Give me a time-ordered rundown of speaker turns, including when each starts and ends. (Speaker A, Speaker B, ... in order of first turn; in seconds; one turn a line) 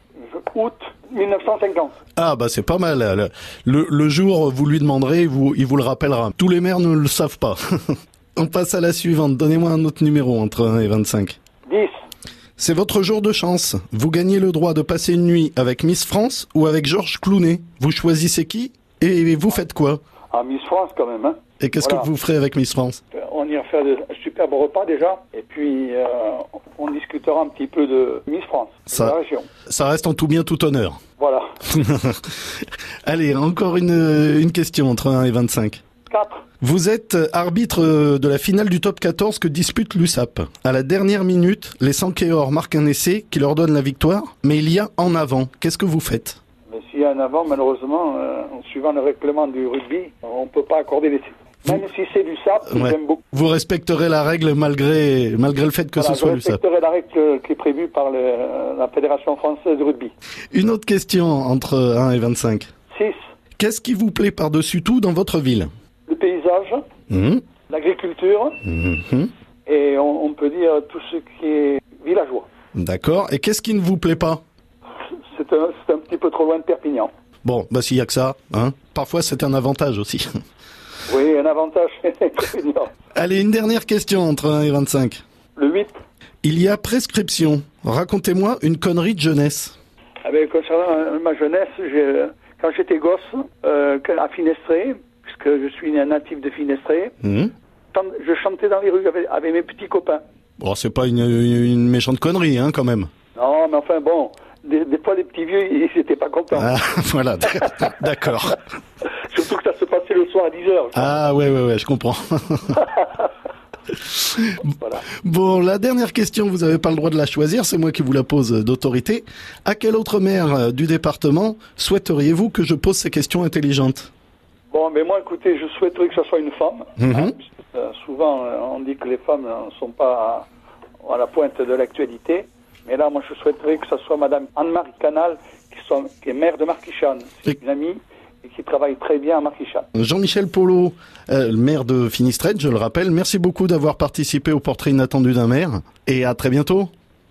Speaker A: 0.2-2.0
Speaker B: 2.2-11.4
Speaker A: 11.7-11.9
Speaker B: 12.6-20.0
Speaker A: 20.3-22.1
Speaker B: 21.6-23.0
Speaker A: 23.1-29.5
Speaker B: 29.7-31.0
Speaker A: 31.2-31.6
Speaker B: 31.7-32.4
Speaker B: 33.0-35.8
Speaker A: 36.1-36.4
Speaker B: 36.6-46.4
Speaker A: 46.7-53.2
Speaker B: 52.7-56.6
Speaker A: 56.0-60.1
Speaker B: 60.5-62.7
Speaker A: 62.9-63.2
Speaker B: 63.6-65.7
Speaker A: 66.1-66.8
Speaker B: 67.1-67.4
Speaker A: 67.7-68.6
Speaker B: 68.6-69.3
Speaker A: 69.7-72.5
Speaker B: 72.8-74.4
Speaker A: 75.3-77.1
Speaker B: 77.5-80.3
Speaker A: 81.1-82.9
Speaker B: 83.2-85.2
Speaker A: 85.6-85.9
Speaker B: 86.4-89.8
Speaker A: 90.2-97.2
Speaker B: 97.2-97.5
Speaker A: 97.9-100.2
Speaker B: 100.6-103.1
Speaker A: 103.4-106.7
Speaker B: 106.5-108.6
Speaker A: 109.3-111.1
Speaker B: 111.0-112.9
Speaker B: 114.1-114.6
Speaker B: 115.2-124.1
Speaker A: 124.7-130.5
Speaker B: 127.0-127.3
Speaker A: 131.0-139.9
Speaker B: 139.9-146.9